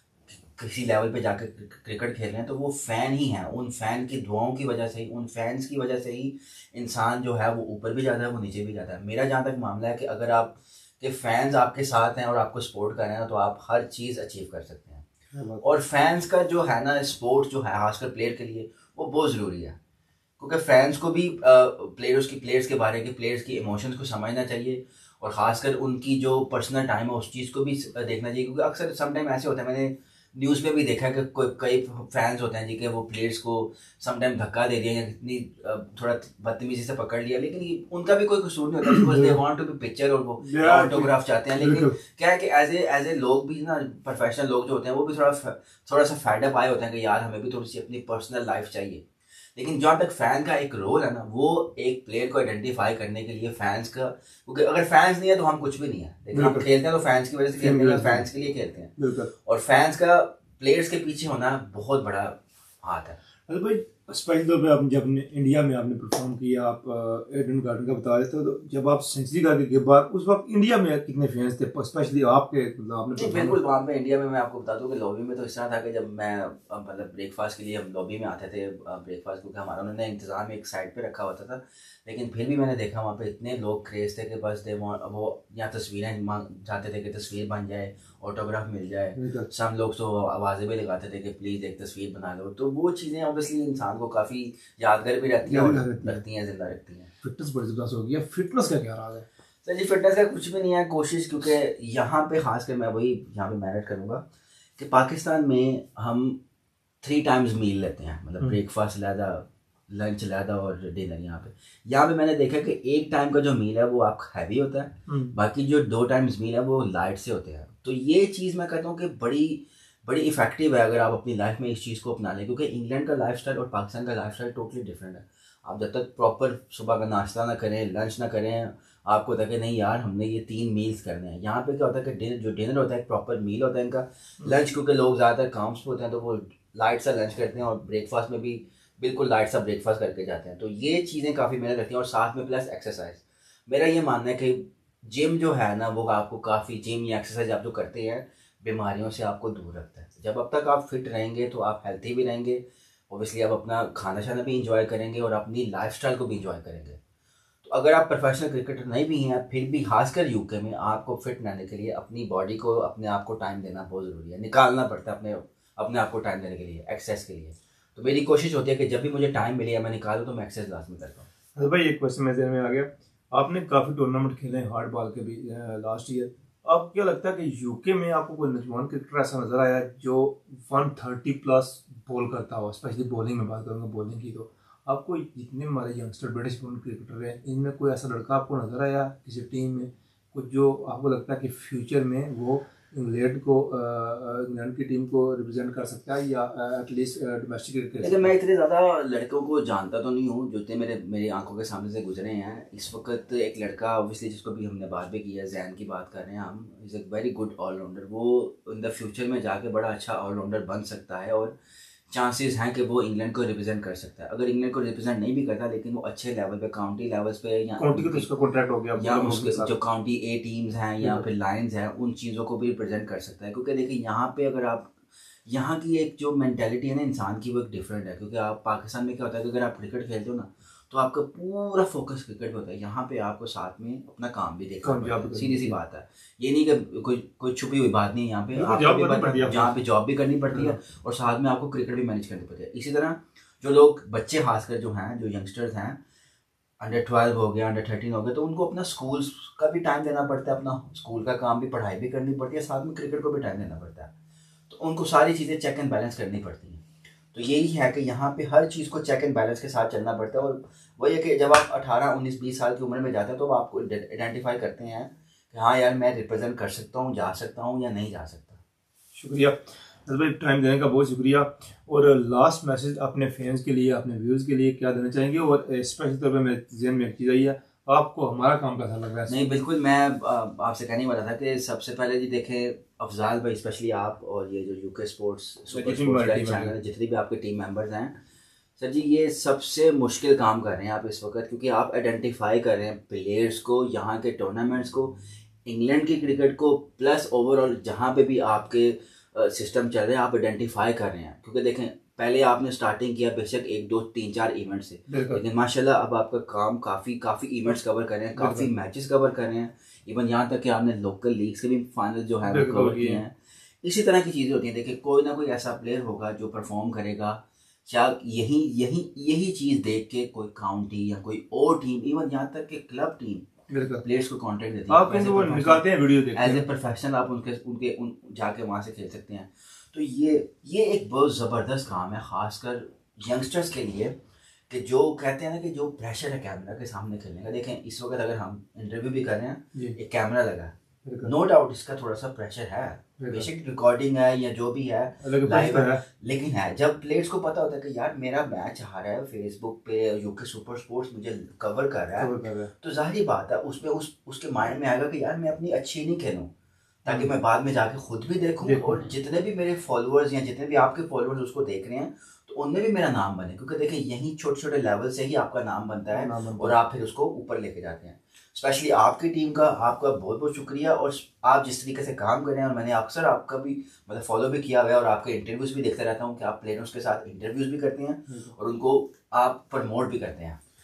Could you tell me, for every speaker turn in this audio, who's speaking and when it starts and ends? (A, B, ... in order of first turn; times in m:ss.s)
0:00.3-0:15.1 A
0:15.3-0:15.6 B
0:15.6-0:19.8 A
0:20.4-0:49.0 A
0:38.9-0:39.4 B
0:40.4-0:42.0 B
0:49.6-1:03.2 A
0:56.3-0:56.7 B
0:57.6-0:58.3 B
0:59.0-0:59.3 B
1:03.5-1:13.6 B
1:13.2-1:37.1 A
1:29.2-1:29.5 B
1:35.5-1:36.2 B
1:37.2-1:39.3 B
1:39.6-1:44.2 A
1:44.8-1:46.4 A
1:47.0-2:37.0 A
1:55.1-1:55.3 B
2:37.6-2:51.3 A
2:51.6-3:18.3 B
3:18.0-3:31.5 A
3:32.1-3:38.3 A
3:37.8-3:39.7 B
3:39.0-3:44.9 A
3:45.5-4:06.0 A
3:54.8-3:55.8 B
3:58.5-3:59.7 B
4:00.5-4:00.8 B
4:06.8-4:14.1 A
4:14.7-4:16.8 A
4:17.3-4:28.6 A
4:29.1-4:39.5 B
4:39.3-4:48.1 A
4:45.7-4:46.8 B
4:48.8-5:23.5 A
5:05.1-5:05.4 B
5:08.4-5:08.7 B
5:12.5-5:13.2 B
5:23.7-5:24.0 B
5:24.0-5:34.1 A
5:24.9-5:26.6 B
5:34.7-5:40.7 A
5:41.0-5:41.3 B
5:41.2-5:56.5 A
5:43.2-5:43.5 B
5:45.2-5:46.0 B
5:52.2-5:52.7 B
5:57.0-6:20.6 A
5:58.6-5:59.0 B
6:06.1-6:06.8 B
6:18.3-6:18.5 B